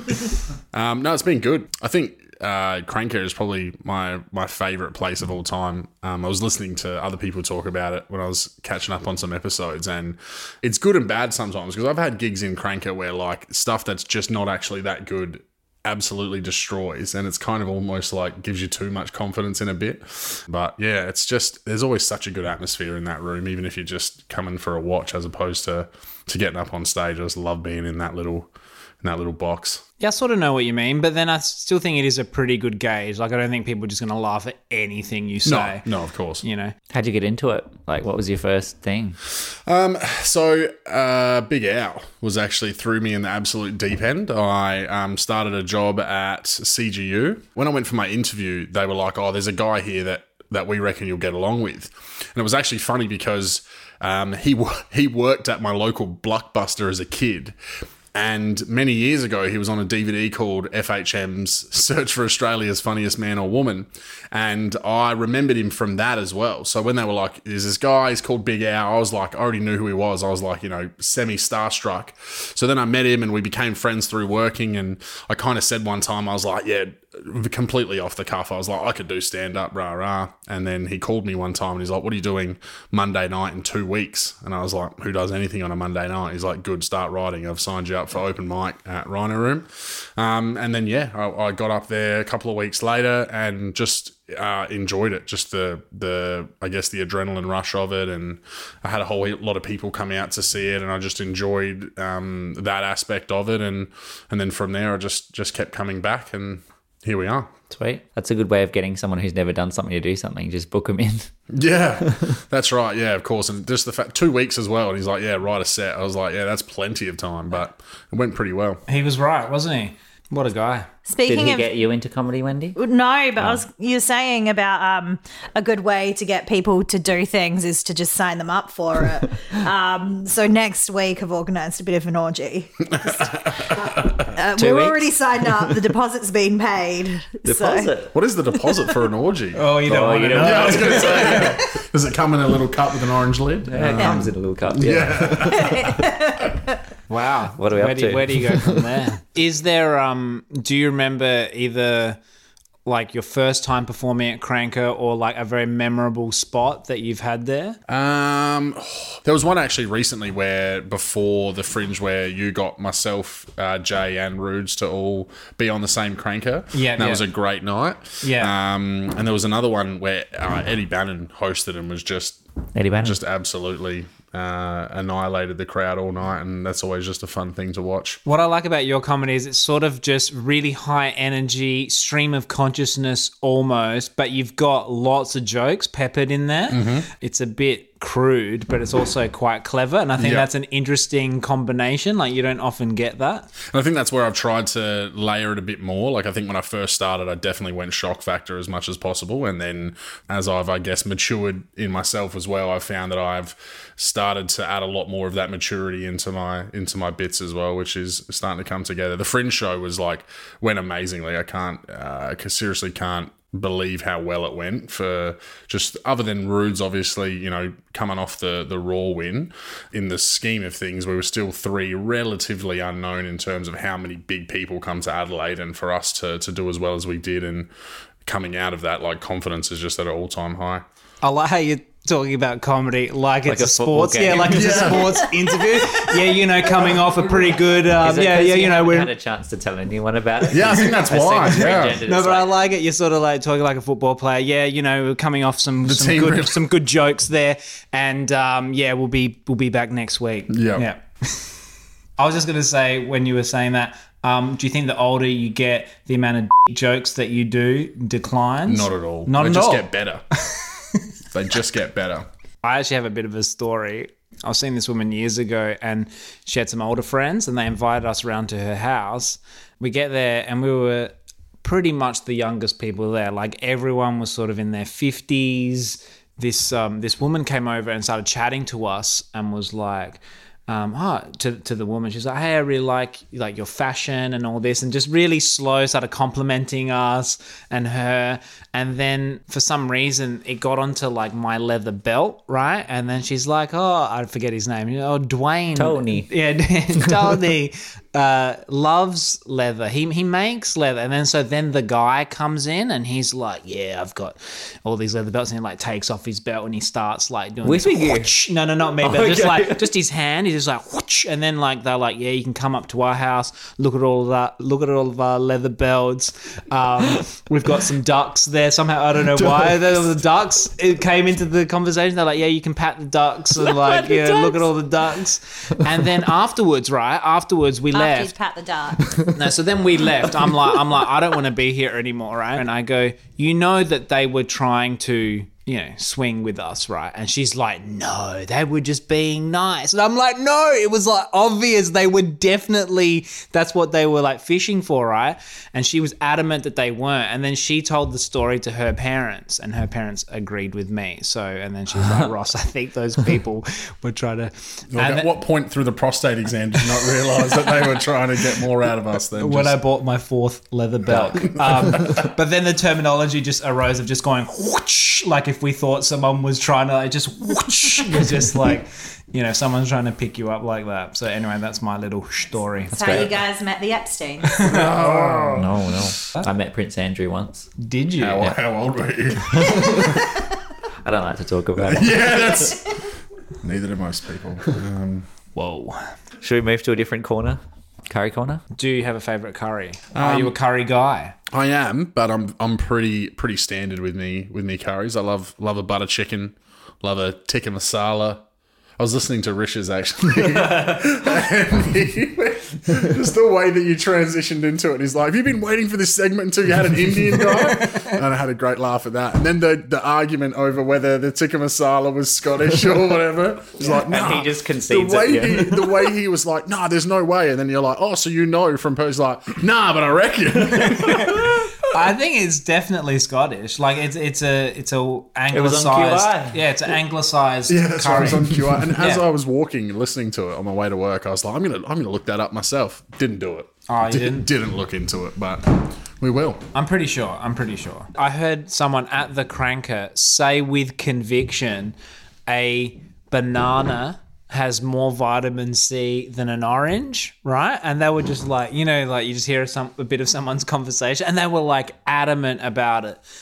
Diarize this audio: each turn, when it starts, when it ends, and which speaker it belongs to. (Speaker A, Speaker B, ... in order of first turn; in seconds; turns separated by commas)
Speaker A: 0.7-28.5, Speaker A: 29.0-29.8, Speaker B: 30.0-35.9, Speaker A: 35.4-36.4, Speaker B: 36.4-36.7, Speaker C: 36.9-39.2, Speaker A: 39.6-57.5, Speaker A: 58.1-107.5, Speaker C: 107.7-111.3, Speaker A: 111.5-118.8, Speaker B: 118.9-120.9, Speaker D: 121.1-121.7, Speaker C: 121.2-122.8, Speaker D: 122.8-137.9, Speaker A: 132.9-134.3, Speaker C: 134.6-135.8, Speaker C: 137.4-138.1, Speaker A: 138.1-139.6, Speaker B: 139.5-141.6, Speaker C: 139.9-141.5, Speaker A: 140.4-146.1, Speaker C: 143.6-145.9, Speaker D: 144.0-144.3, Speaker D: 145.4-146.6, Speaker B: 147.1-152.2, Speaker C: 147.6-148.8, Speaker B: 152.8-157.8, Speaker A: 157.9-172.4, Speaker B: 166.7-167.2, Speaker B: 168.2-168.5, Speaker C: 172.7-173.2, Speaker A: 173.0-178.2, Speaker B: 178.2-193.5, Speaker A: 186.7-187.1, Speaker A: 190.2-190.5, Speaker A: 193.7-227.7, Speaker A: 228.2-230.8, Speaker B: 231.2-239.1, Speaker C: 233.4-235.1, Speaker A: 234.4-235.2, Speaker C: 238.0-242.6, Speaker A: 240.5-242.0, Speaker B: 242.0-251.5, Speaker A: 245.8-246.6, Speaker A: 250.5-250.9, Speaker B: 252.2-259.9, Speaker A: 258.6-260.2, Speaker B: 260.5-261.0, Speaker A: 261.3-262.2, Speaker B: 262.6-328.3, Speaker C: 295.7-296.3, Speaker C: 307.6-308.3, Speaker C: 309.0-309.9, Speaker C: 319.4-319.9, Speaker C: 323.6-324.7, Speaker D: 327.9-329.1, Speaker B: 329.2-355.3, Speaker A: 354.9-359.8, Speaker B: 359.3-373.3, Speaker A: 361.1-362.1, Speaker C: 372.9-373.3, Speaker D: 372.9-374.6, Speaker B: 374.5-375.7, Speaker A: 374.6-375.7, Speaker C: 375.5-377.7, Speaker B: 377.8-378.5, Speaker A: 378.2-380.3, Speaker C: 379.5-380.3, Speaker C: 381.0-382.6, Speaker A: 381.8-383.0, Speaker A: 383.6-385.3, Speaker B: 385.5-386.0, Speaker C: 386.4-388.6, Speaker B: 388.7-391.3, Speaker A: 390.1-390.6, Speaker A: 391.5-398.4, Speaker A: 399.0-421.8, Speaker B: 407.4-408.1, Speaker C: 413.8-416.1, Speaker B: 420.9-429.2, Speaker C: 425.5-426.6, Speaker A: 427.7-436.6, Speaker B: 433.9-434.5, Speaker B: 436.7-441.9, Speaker B: 442.5-453.2